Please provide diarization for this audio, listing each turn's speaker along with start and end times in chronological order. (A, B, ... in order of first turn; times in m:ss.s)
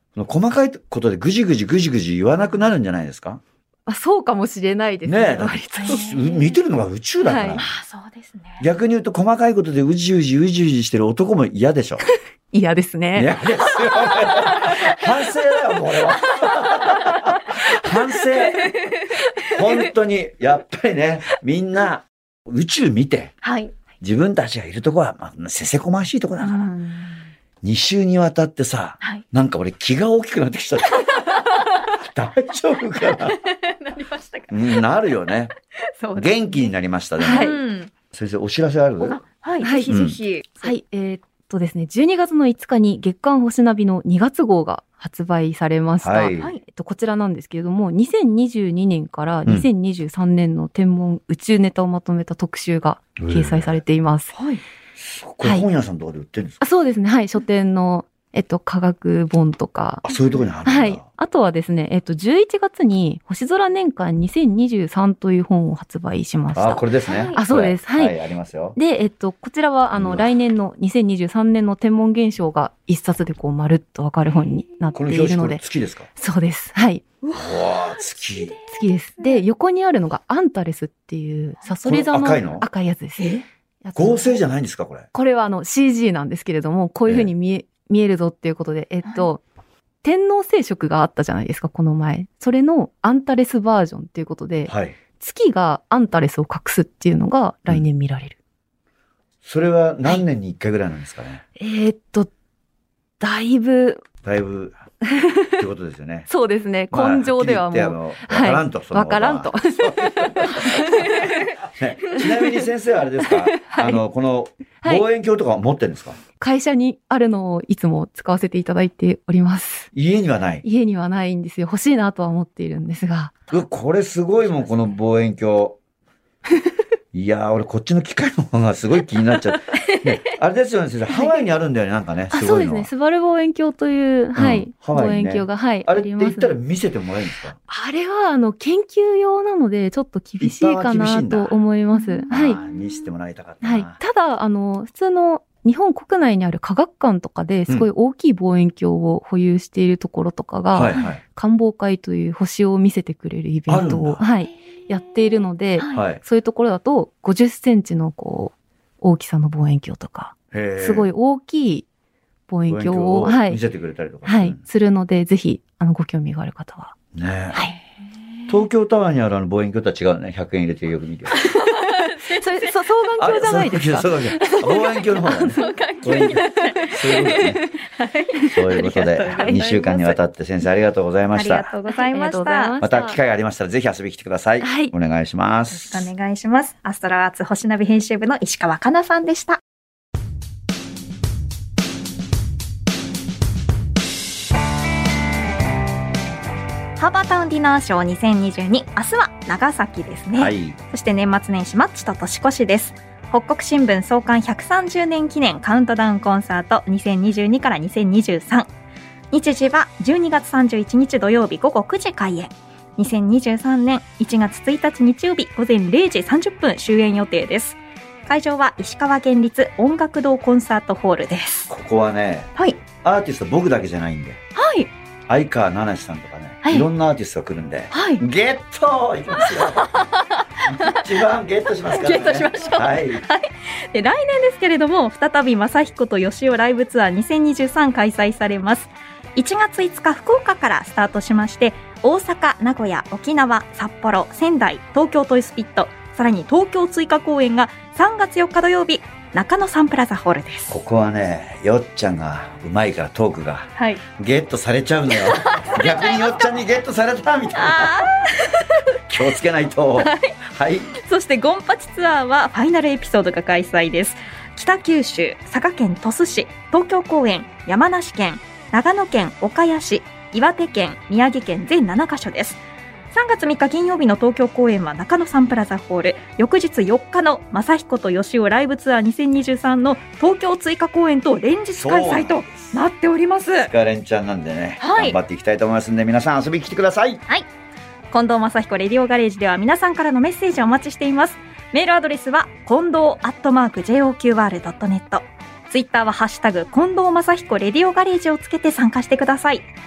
0:00.2-0:03.4 A
0:02.4-0:02.7 B
0:03.9-0:06.0 C
0:05.0-0:07.6 A
0:05.8-0:06.6 B
0:07.2-0:07.6 C
0:07.5-0:08.7 B
0:08.6-0:12.0 A
0:12.1-0:13.4 C
0:13.1-0:18.9 A
0:19.4-0:23.3 A
0:23.4-0:23.7 B
0:24.0-0:26.6 A
0:26.4-0:27.3 B
0:27.6-0:33.4 A
0:33.1-0:34.8 B
0:34.5-0:35.5 A
0:36.0-0:37.9 B
0:36.1-0:37.6 A
0:37.2-0:37.6 C
0:38.1-0:39.2 A
0:39.0-0:40.7 B
0:39.6-0:39.9 C
0:39.9-0:40.2 A
0:40.6-0:54.3 C
0:46.0-0:46.5 A
0:53.2-0:53.8 A
0:54.3-0:54.6 B
0:55.0-0:56.6 A
0:56.6-1:00.0 C
1:00.0-1:01.0 A
1:00.1-1:00.4 B
1:00.6-1:08.2 C
1:06.5-1:08.8 A
1:07.0-1:07.4 B
1:08.7-1:15.6 C
1:09.9-1:10.3 A
1:14.9-1:16.1 A
1:16.1-1:17.0 C
1:17.2-1:19.4 B
1:17.3-1:18.5 A
1:18.7-1:24.4 C
1:21.8-1:22.6 A
1:23.2-1:23.4 B
1:23.9-1:25.1 A
1:25.1-1:29.4 C
1:27.1-1:27.3 A
1:29.0-1:29.3 B
1:30.0-1:38.4 C
1:34.7-1:34.9 A
1:39.4-1:41.4 A
1:41.6-1:42.3 C
1:43.2-1:44.0 C
1:44.2-1:44.8 A
1:45.1-1:45.6 C
1:45.4-1:46.3 A
1:46.3-1:51.5 C
1:46.9-1:50.9 A
1:51.7-1:56.2 A
1:52.1-1:52.6 C
1:53.2-1:54.0 C
1:56.4-1:59.9 C
1:59.9-2:00.6 A
2:00.6-2:03.4 C
2:03.5-2:05.8 A
2:07.1-2:12.9 A
2:12.3-2:16.5 C
2:14.3-2:17.6 A
2:17.7-2:22.6 C
2:20.4-2:21.6 A
2:22.0-2:22.3 B
2:22.3-2:24.0 A
2:23.6-2:41.9 C
2:30.7-2:31.2 A
2:33.7-2:34.2 A
2:35.8-2:36.0 B
2:35.9-2:36.2 A
2:40.5-2:41.1 A
2:42.5-2:43.6 C
2:42.7-2:44.6 A
2:44.2-2:46.9 C
2:47.1-2:47.6 A
2:48.5-2:51.4 A
2:51.6-2:52.5 B
2:51.6-2:57.8 C
2:53.2-2:57.6 A
2:55.5-2:59.9 B
2:58.3-2:58.6 C
2:58.5-3:01.7 A
2:59.2-3:00.2 C
3:01.3-3:02.7 B
3:01.9-3:03.2 C
3:02.8-3:06.1 A
3:04.6-3:04.9 C
3:05.7-3:09.6 B
3:17.0-3:28.7 B
3:20.3-3:20.8 A
3:29.3-3:41.7 B
3:41.7-3:44.4 A
3:44.5-3:44.9 B
3:45.3-3:49.9 A
3:46.6-3:46.9 B
3:47.9-3:48.2 B
3:49.4-3:51.2 B
3:50.6-3:53.2 A
3:51.8-4:10.8 B
4:10.7-4:18.1 A
4:13.8-4:14.0 B
4:15.2-4:16.3 B
4:17.6-4:18.7 B
4:19.1-4:20.9 A
4:20.0-4:20.3 B
4:20.9-4:43.7 B
4:41.8-4:42.8 A
4:43.6-4:47.2 A
4:44.8-4:45.2 B
4:48.1-4:59.7 B